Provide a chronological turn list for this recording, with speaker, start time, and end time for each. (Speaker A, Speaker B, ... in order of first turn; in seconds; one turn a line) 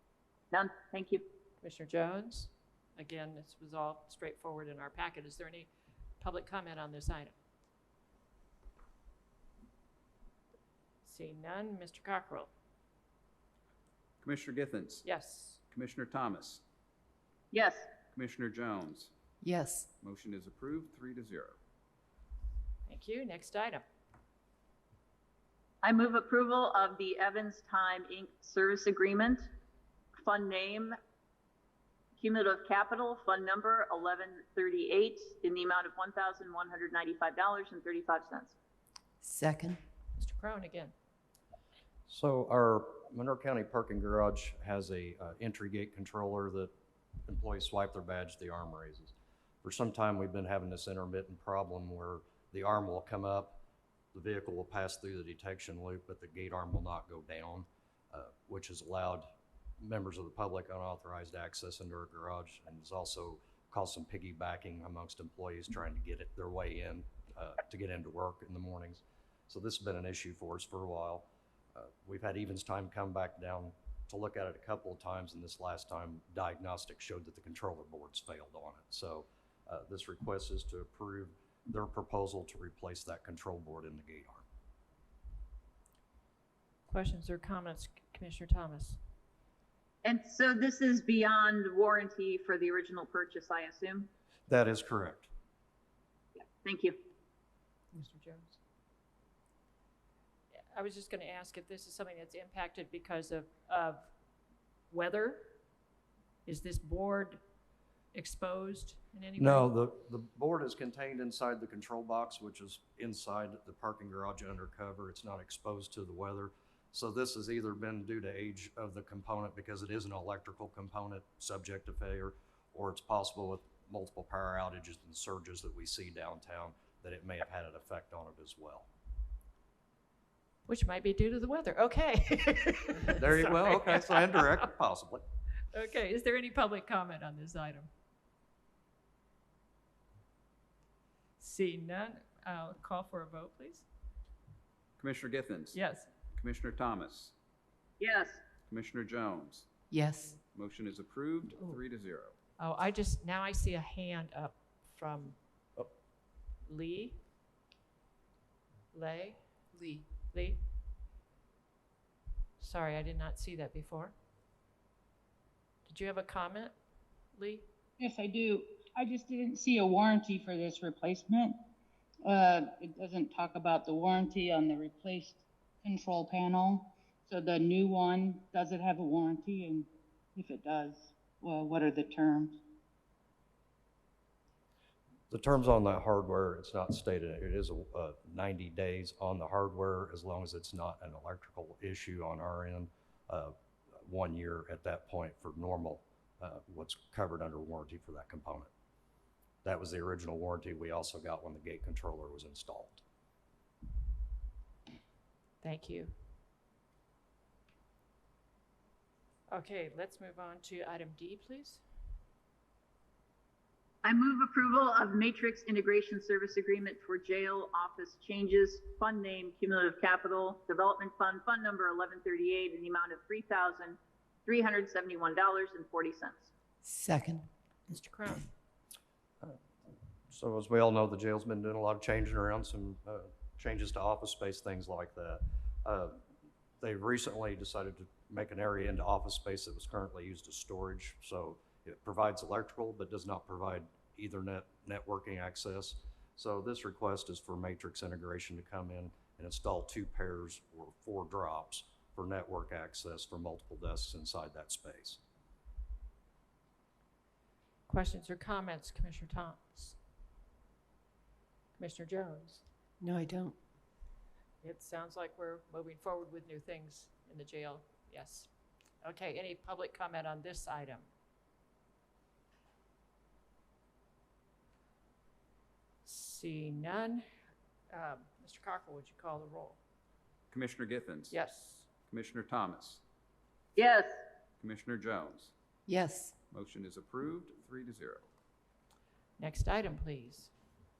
Speaker A: 0.5-1.2
Speaker B: 1.6-5.7
Speaker B: 6.2-7.3
Speaker B: 11.0-12.5
Speaker C: 14.2-15.1
Speaker B: 15.0-15.6
Speaker C: 15.7-16.6
Speaker A: 17.5-17.9
Speaker C: 18.1-19.1
Speaker D: 19.4-19.9
Speaker C: 20.0-21.6
Speaker B: 22.9-23.8
Speaker A: 25.8-29.5
Speaker A: 30.2-30.9
Speaker A: 32.2-38.5
Speaker D: 39.2-39.8
Speaker B: 40.2-40.9
Speaker E: 42.1-46.7
Speaker E: 47.2-53.6
Speaker E: 54.1-59.3
Speaker E: 59.8-84.4
Speaker B: 86.9-89.0
Speaker A: 90.0-94.1
Speaker E: 94.5-95.3
Speaker A: 96.4-97.0
Speaker B: 97.9-98.6
Speaker B: 100.7-104.1
Speaker B: 104.9-105.5
Speaker B: 106.5-107.4
Speaker B: 108.1-109.7
Speaker E: 109.4-128.8
Speaker B: 130.7-134.7
Speaker E: 133.1-135.2
Speaker B: 135.7-137.9
Speaker B: 141.4-143.9
Speaker C: 145.0-145.8
Speaker B: 145.7-146.1
Speaker C: 146.3-147.3
Speaker A: 148.0-148.4
Speaker C: 148.7-149.7
Speaker D: 149.9-150.4
Speaker C: 150.5-152.3
Speaker B: 152.6-155.4
Speaker B: 156.6-157.2
Speaker B: 158.9-159.4
Speaker D: 159.7-160.0
Speaker B: 160.3-160.6
Speaker B: 162.6-164.1
Speaker B: 165.8-166.7
Speaker B: 167.3-167.7
Speaker F: 168.0-171.6
Speaker F: 172.2-182.6
Speaker E: 185.3-198.7
Speaker E: 199.6-203.0
Speaker B: 205.6-206.1
Speaker B: 209.5-211.8
Speaker A: 214.0-226.5
Speaker D: 226.8-227.5
Speaker B: 227.9-228.5
Speaker E: 230.3-236.2
Speaker E: 236.8-255.2
Speaker B: 257.9-260.0
Speaker B: 261.8-262.6
Speaker D: 263.0-263.6
Speaker B: 264.6-268.5
Speaker B: 269.0-271.1
Speaker B: 276.0-277.2
Speaker B: 277.9-279.8
Speaker C: 280.5-281.3
Speaker B: 281.3-281.9
Speaker C: 282.1-283.0
Speaker A: 283.8-284.2
Speaker C: 284.6-285.5
Speaker D: 285.9-286.3
Speaker C: 286.5-288.3
Speaker B: 289.4-290.5